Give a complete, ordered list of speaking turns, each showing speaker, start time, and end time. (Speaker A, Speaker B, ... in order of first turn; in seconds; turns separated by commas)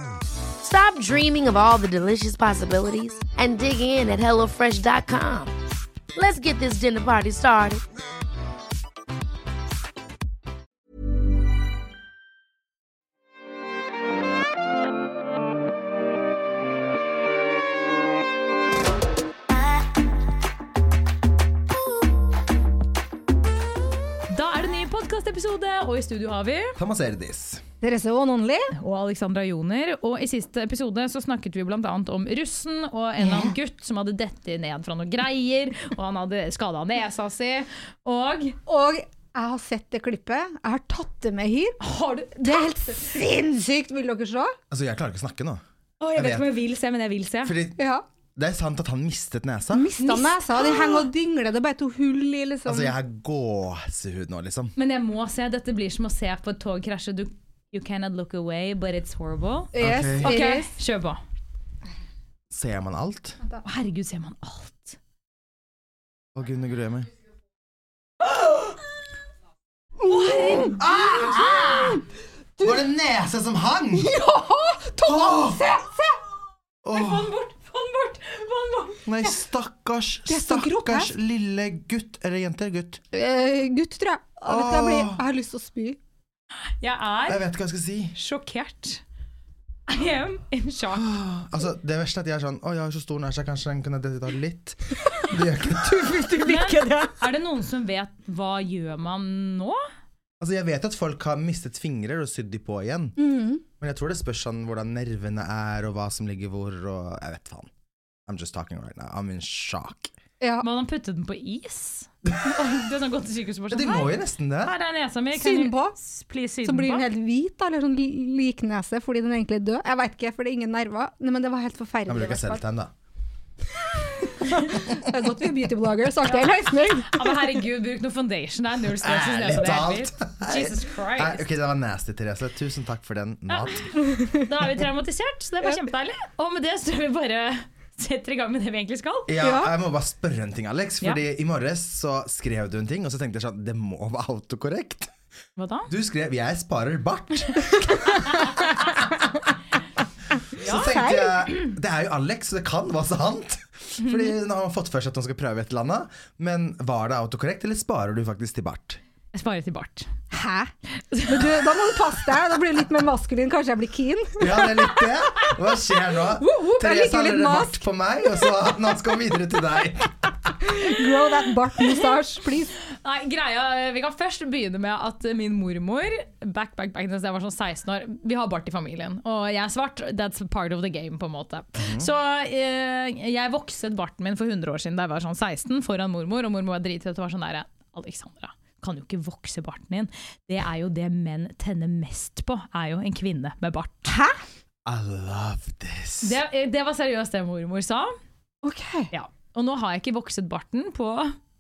Speaker A: 0.6-5.5, Speaker A: 6.2-7.8, Speaker B: 24.3-26.8, Speaker C: 26.8-27.6, Speaker D: 27.8-28.7, Speaker B: 28.8-38.6, Speaker C: 33.2-33.5, Speaker D: 38.7-41.8, Speaker B: 41.8-42.7, Speaker D: 42.4-44.5, Speaker C: 44.7-45.6, Speaker B: 46.0-47.6, Speaker C: 46.1-46.5, Speaker C: 47.4-47.8, Speaker D: 47.8-48.0, Speaker C: 48.4-49.9, Speaker D: 49.7-53.0, Speaker B: 50.0-50.4, Speaker C: 52.7-54.7, Speaker B: 54.8-61.2, Speaker D: 59.7-60.7, Speaker C: 59.8-60.4, Speaker C: 62.5-63.4, Speaker B: 63.6-65.0, Speaker C: 66.3-67.1, Speaker D: 70.0-70.8, Speaker B: 70.0-70.8, Speaker C: 70.8-72.0, Speaker B: 71.4-71.8, Speaker C: 72.6-74.1, Speaker D: 74.0-76.2, Speaker C: 75.0-75.6, Speaker C: 76.8-77.3, Speaker B: 76.9-79.3, Speaker C: 79.0-83.0, Speaker D: 80.3-81.1, Speaker D: 83.1-86.0, Speaker C: 84.5-85.2, Speaker B: 86.8-87.4, Speaker C: 87.3-88.2, Speaker B: 88.2-89.0, Speaker B: 89.9-91.1, Speaker C: 90.9-96.3, Speaker D: 96.0-97.2, Speaker B: 96.4-99.8, Speaker C: 100.4-103.2, Speaker D: 103.2-103.6, Speaker C: 103.8-107.7, Speaker C: 108.3-110.1, Speaker D: 110.4-110.7, Speaker B: 110.6-117.0, Speaker C: 113.7-114.7, Speaker D: 115.3-116.0, Speaker D: 116.6-122.6, Speaker C: 122.1-122.9, Speaker D: 124.1-127.5, Speaker B: 127.0-131.4, Speaker C: 129.0-133.9, Speaker B: 133.5-139.4, Speaker C: 139.3-145.1, Speaker D: 139.4-139.7, Speaker B: 145.6-145.9, Speaker C: 145.9-148.4, Speaker D: 147.7-148.9, Speaker B: 150.6-150.9, Speaker C: 150.6-159.0, Speaker D: 150.6-151.5, Speaker B: 159.3-160.1, Speaker D: 160.3-160.7, Speaker B: 161.1-161.6, Speaker D: 161.3-164.8, Speaker C: 164.4-170.6, Speaker D: 166.3-167.8, Speaker D: 170.6-172.7, Speaker B: 172.9-194.1, Speaker C: 181.8-182.1, Speaker D: 194.1-194.4, Speaker C: 194.8-196.4, Speaker B: 196.2-198.1, Speaker D: 198.6-199.1, Speaker B: 199.1-201.4